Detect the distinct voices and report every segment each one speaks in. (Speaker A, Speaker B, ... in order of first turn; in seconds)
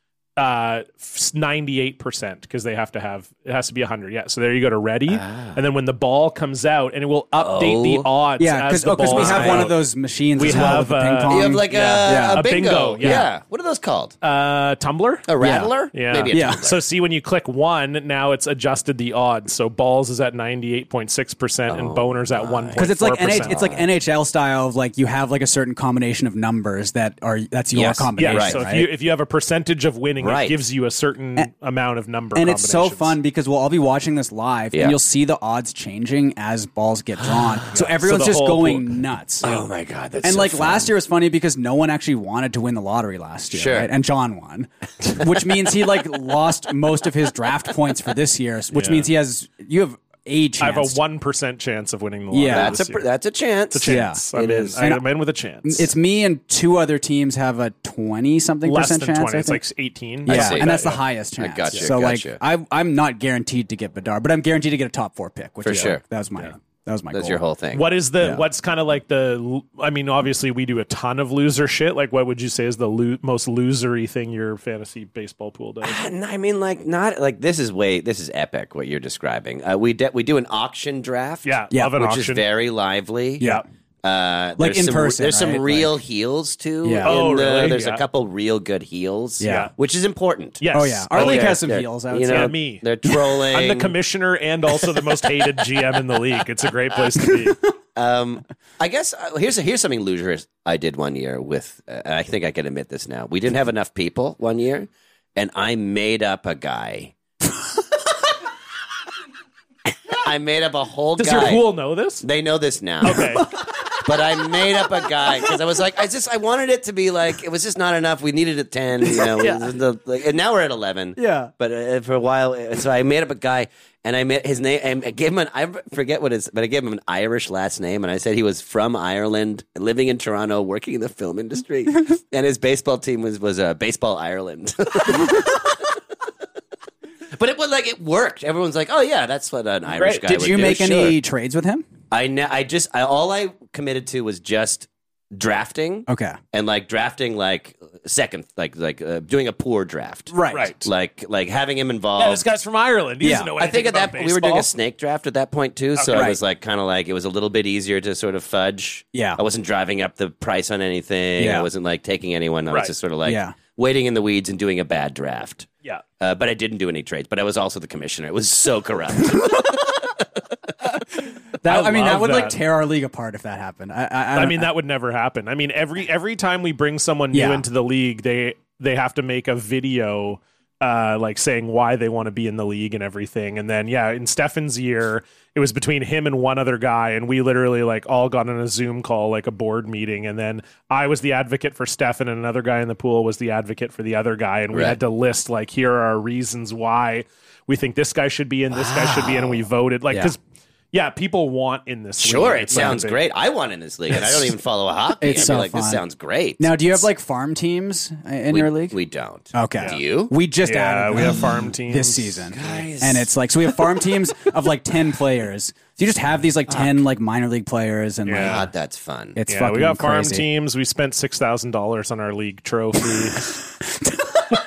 Speaker A: 0.4-9.8, 10.3-13.3, 14.2-15.3, 15.9-23.6, 28.2-33.2, 37.7-38.9, 48.7-49.1, 50.6-53.0, 53.7-55.9, 58.6-61.0, 65.7-66.5, 67.7-76.0, 81.4-82.4, 87.0-88.0, 89.4-89.7, 90.6-91.6, 92.3-92.8, 93.5-97.7, 111.2-112.2, 113.0-113.5, 150.5-150.9, 152.2-154.7, 155.9-156.3, 162.7-162.9, 171.6-172.6, 174.3-200.4, 200.9-203.2, 210.6-212.5, 218.2-218.7, 219.5-223.5
Speaker B: 5.1-5.6, 7.3-8.1, 9.1-9.7, 10.4-14.1, 15.3-16.8, 21.7-23.9, 27.7-28.6, 30.2-30.6, 39.4-40.9, 43.5-43.9, 52.5-54.0, 60.3-60.8, 61.4-62.4, 65.6-66.0, 67.1-67.9, 75.8-83.5, 84.0-90.6, 91.1-93.9, 97.9-107.1, 110.1-111.6, 112.2-135.8, 137.3-141.2, 142.1-152.4, 153.6-165.7, 166.2-170.1, 194.7-195.0, 198.7-199.6, 202.2-207.1, 208.5-210.3, 211.2-211.4, 212.5-213.3, 218.3-219.4
Speaker C: 8.4-12.4, 15.4-15.7, 16.3-16.6, 22.8-28.9, 32.3-39.6, 40.2-51.0, 52.3-52.8, 53.8-55.0, 55.6-59.6, 60.2-67.4, 68.2-68.4, 84.6-85.9, 86.8-87.2, 89.4-89.7, 90.7-92.5, 121.2-121.5, 139.9-141.8, 146.1-146.4, 150.3-150.7, 153.2-153.5, 156.1-156.4, 159.1-159.4, 161.4-161.7, 163.2-163.6, 171.6-174.7, 177.3-177.6, 205.2-206.0, 206.6-208.9, 209.5-218.7, 219.3-220.5